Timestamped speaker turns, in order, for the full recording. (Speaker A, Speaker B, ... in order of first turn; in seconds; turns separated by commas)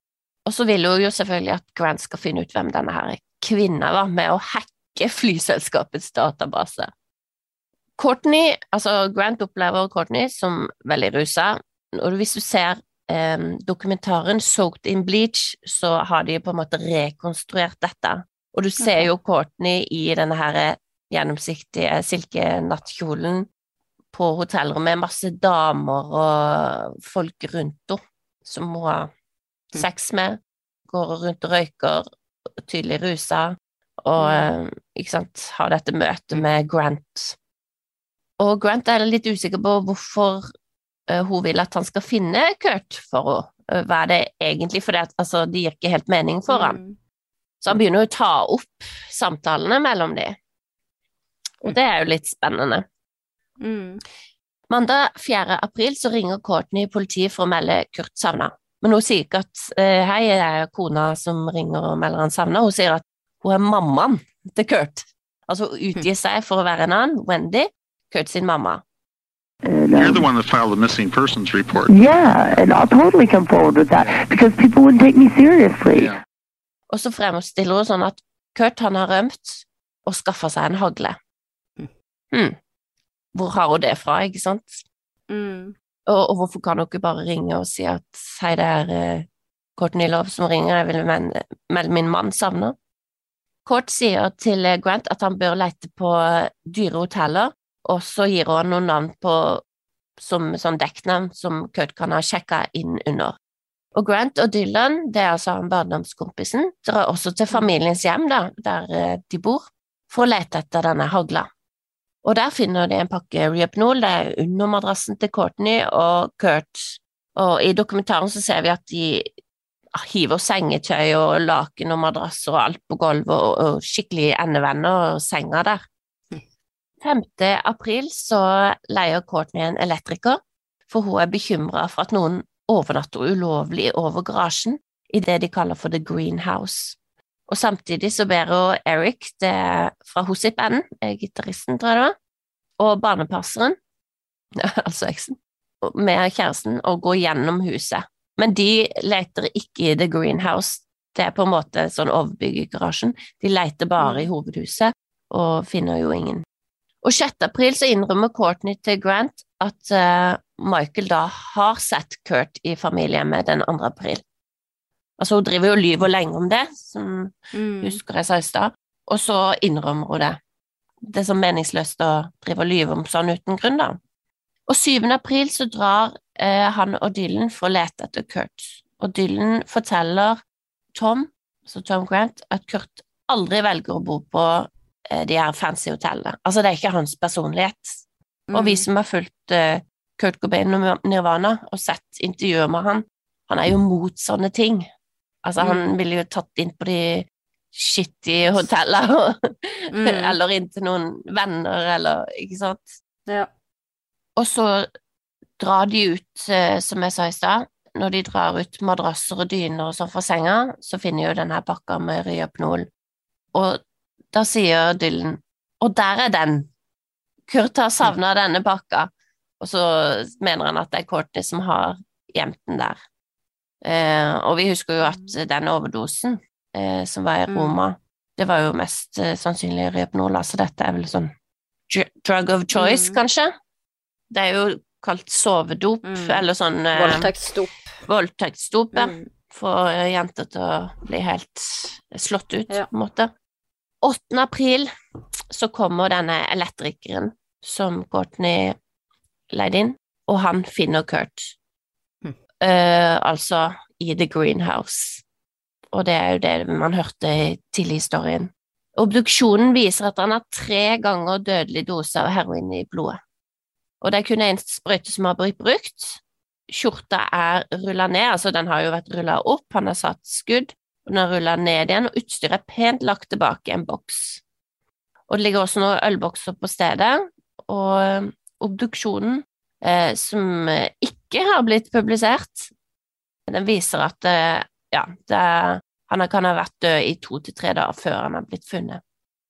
Speaker A: 0.5-6.9, Speaker A: 8.0-23.5, Speaker B: 18.8-19.1, Speaker A: 24.1-29.1, Speaker A: 29.7-32.0, Speaker A: 32.6-37.4, Speaker B: 34.2-34.5, Speaker A: 38.4-40.5, Speaker A: 41.1-46.8, Speaker B: 46.5-47.0, Speaker A: 47.6-50.4, Speaker A: 51.6-52.8, Speaker B: 53.6-54.0, Speaker A: 54.7-68.8, Speaker C: 69.6-70.3, Speaker D: 69.9-71.9, Speaker C: 71.9-76.2, Speaker D: 75.9-76.2, Speaker A: 76.9-81.2, Speaker A: 83.3-84.8, Speaker B: 85.3-85.7, Speaker A: 86.1-89.2, Speaker A: 89.8-92.7, Speaker A: 93.6-99.6, Speaker A: 100.2-103.3, Speaker A: 103.9-111.5, Speaker A: 112.2-119.3, Speaker A: 119.9-125.8, Speaker A: 127.0-137.0, Speaker A: 137.5-142.1, Speaker A: 142.8-143.8, Speaker A: 144.6-156.4, Speaker B: 154.0-154.3, Speaker A: 157.0-164.2, Speaker A: 165.2-170.4, Speaker B: 167.5-168.0, Speaker A: 171.0-174.0, Speaker A: 174.7-180.4, Speaker A: 180.9-187.9, Speaker B: 188.5-188.8, Speaker A: 188.5-194.9, Speaker A: 195.4-202.9, Speaker B: 195.6-195.9, Speaker B: 199.9-200.3, Speaker A: 204.3-204.9, Speaker A: 205.6-212.9, Speaker A: 213.5-213.8, Speaker A: 214.3-216.7, Speaker A: 217.5-223.0, Speaker A: 223.8-231.3, Speaker B: 227.5-227.8, Speaker A: 231.9-233.5, Speaker B: 232.7-233.2, Speaker A: 234.3-237.3, Speaker B: 236.0-237.9, Speaker A: 238.1-243.3, Speaker B: 238.9-239.3, Speaker A: 244.0-244.9, Speaker A: 245.5-248.8, Speaker A: 249.5-251.5, Speaker A: 252.6-255.2, Speaker A: 255.9-263.2, Speaker A: 264.0-274.4, Speaker A: 275.3-282.7, Speaker A: 283.5-289.0